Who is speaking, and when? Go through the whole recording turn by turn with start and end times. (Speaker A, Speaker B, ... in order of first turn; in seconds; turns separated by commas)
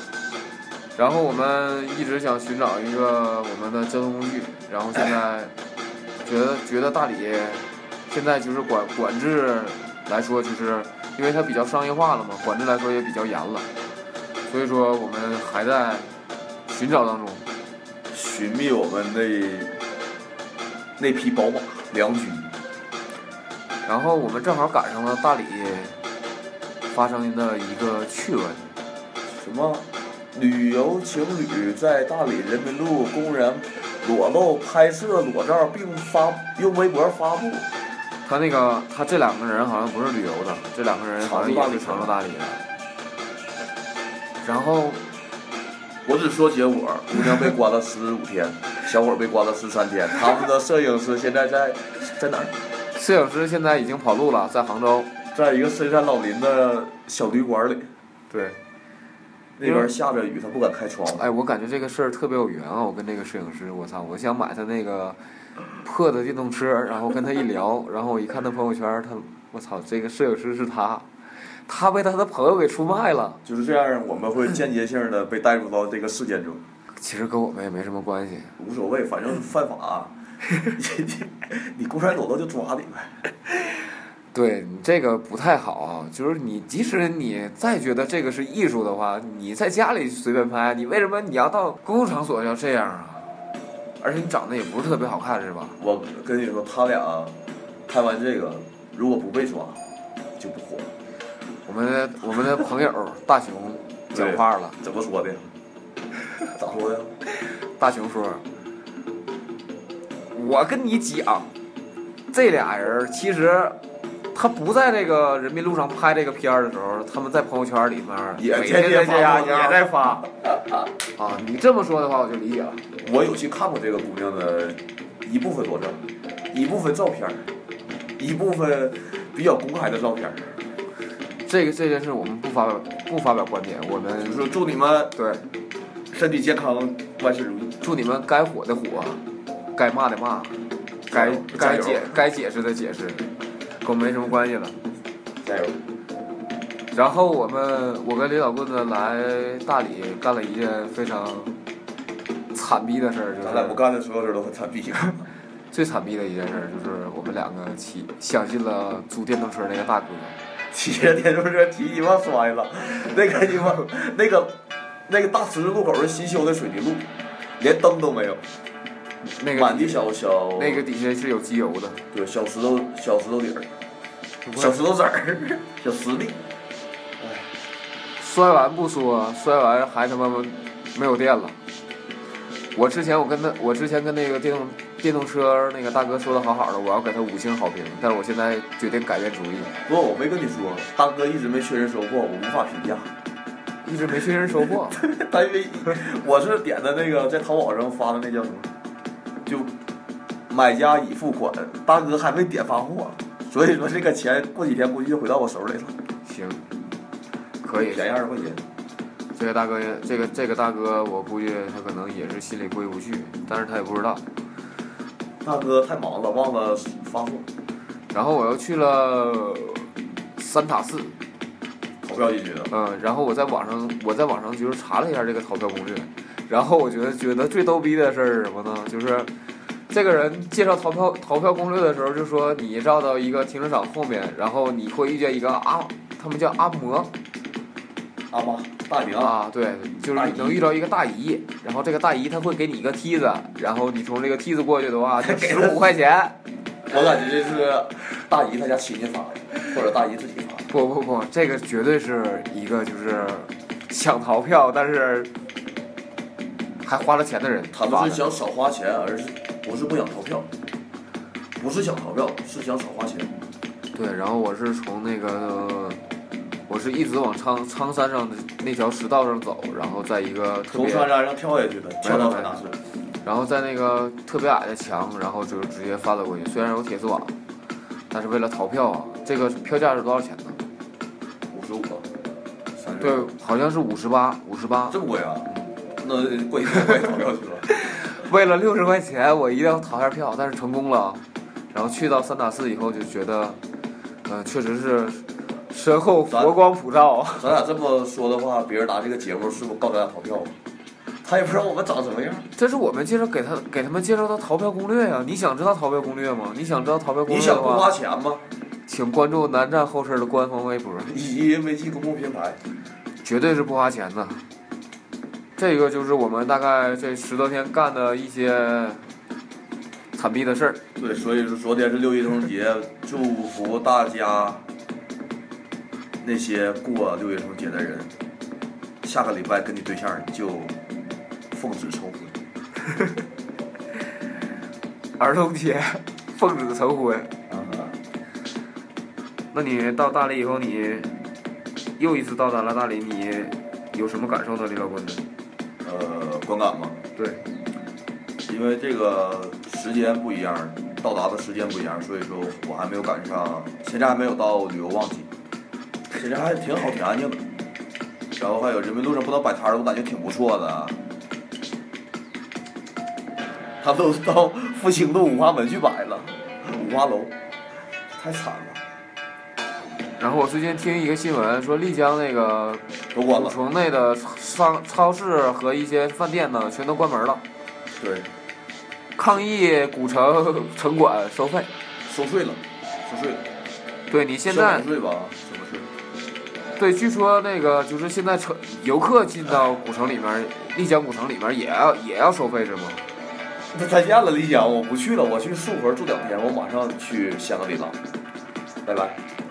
Speaker A: 1.0-5.5, Speaker A: 6.2-13.7, Speaker A: 14.5-16.1, Speaker A: 16.7-17.4, Speaker B: 18.1-19.8, Speaker B: 21.0-22.5, Speaker A: 23.9-26.0, Speaker A: 26.9-28.7, Speaker B: 29.3-37.7, Speaker A: 38.2-42.6, Speaker B: 41.2-42.1, Speaker A: 44.4-45.0, Speaker B: 46.0-52.5, Speaker A: 52.9-55.1, Speaker B: 55.3-57.9, Speaker A: 58.3-58.6, Speaker B: 59.6-61.3, Speaker A: 61.1-65.2, Speaker A: 65.8-73.4, Speaker B: 73.4-76.6, Speaker A: 76.9-78.5, Speaker B: 78.6-80.1, Speaker B: 80.7-83.2, Speaker A: 84.3-93.3, Speaker A: 94.0-95.8, Speaker B: 95.8-97.4, Speaker B: 97.9-99.8, Speaker B: 100.4-100.9, Speaker A: 101.7-104.8, Speaker B: 104.1-105.5, Speaker B: 106.6-107.2, Speaker A: 107.7-108.4, Speaker A: 110.3-111.5, Speaker A: 112.3-113.8, Speaker A: 114.3-120.3, Speaker B: 118.4-119.8, Speaker A: 121.1-122.8, Speaker B: 123.0-127.5, Speaker B: 128.2-130.6, Speaker A: 131.4-134.5, Speaker B: 134.2-135.1, Speaker A: 135.2-135.4, Speaker B: 136.1-137.8, Speaker A: 137.8-139.2, Speaker A: 139.7-140.6, Speaker B: 141.1-142.2, Speaker A: 141.1-143.3, Speaker A: 143.8-144.8, Speaker B: 145.4-145.8, Speaker A: 146.9-151.6, Speaker A: 152.5-153.8, Speaker B: 153.4-155.3, Speaker A: 155.7-160.3, Speaker B: 160.7-164.5, Speaker B: 165.1-167.1, Speaker B: 167.6-168.4, Speaker A: 169.2-170.0, Speaker B: 169.5-170.8, Speaker A: 170.6-172.0, Speaker B: 172.1-173.7, Speaker A: 174.4-174.8, Speaker B: 174.6-176.4, Speaker B: 177.2-177.5, Speaker A: 178.2-181.6, Speaker A: 182.7-189.7, Speaker B: 189.9-193.1, Speaker A: 193.8-195.0, Speaker B: 194.9-198.7, Speaker B: 199.5-199.7, Speaker B: 200.5-206.0, Speaker A: 206.2-206.6, Speaker A: 207.6-208.1, Speaker B: 207.8-208.6, Speaker A: 209.3-214.2, Speaker B: 215.4-217.5, Speaker A: 218.1-221.2, Speaker B: 222.0-222.7, Speaker A: 222.7-229.3, Speaker A: 229.9-237.1, Speaker B: 238.3-239.3, Speaker A: 239.2-246.4, Speaker B: 240.1-240.6, Speaker B: 245.2-245.9, Speaker B: 246.9-250.7, Speaker A: 250.7-255.3, Speaker A: 256.8-258.2, Speaker B: 257.7-260.5, Speaker B: 261.6-263.3, Speaker A: 263.9-266.0, Speaker A: 266.7-271.1, Speaker B: 270.7-272.8, Speaker A: 272.0-272.5, Speaker A: 273.2-277.4, Speaker A: 278.1-280.6, Speaker B: 281.5-282.1, Speaker B: 282.8-283.3, Speaker A: 283.0-285.0, Speaker B: 284.9-287.7, Speaker A: 287.7-291.2, Speaker A: 291.7-293.6, Speaker A: 294.2-297.5, Speaker B: 296.3-296.6, Speaker B: 297.4-300.6, Speaker B: 301.1-302.5, Speaker A: 302.6-307.9, Speaker B: 307.3-308.5, Speaker A: 308.9-311.1, Speaker B: 311.1-312.6, Speaker A: 313.2-314.4, Speaker A: 315.6-319.1, Speaker A: 320.1-320.8, Speaker B: 321.0-324.6, Speaker B: 326.2-328.1, Speaker B: 329.0-330.8, Speaker B: 331.5-332.4, Speaker A: 335.2-337.3, Speaker B: 337.5-338.0, Speaker A: 339.5-341.2, Speaker A: 342.0-345.2, Speaker B: 345.8-347.0, Speaker A: 347.2-347.4, Speaker B: 348.4-355.3, Speaker B: 356.1-357.5, Speaker B: 358.4-361.0, Speaker B: 363.8-367.4, Speaker B: 368.1-368.8, Speaker A: 370.2-377.4, Speaker B: 373.1-373.6, Speaker B: 378.0-378.3, Speaker A: 379.2-381.7, Speaker B: 382.1-383.4, Speaker A: 384.1-384.9, Speaker B: 384.5-385.9, Speaker A: 386.8-393.0, Speaker B: 393.7-398.0, Speaker B: 398.9-399.2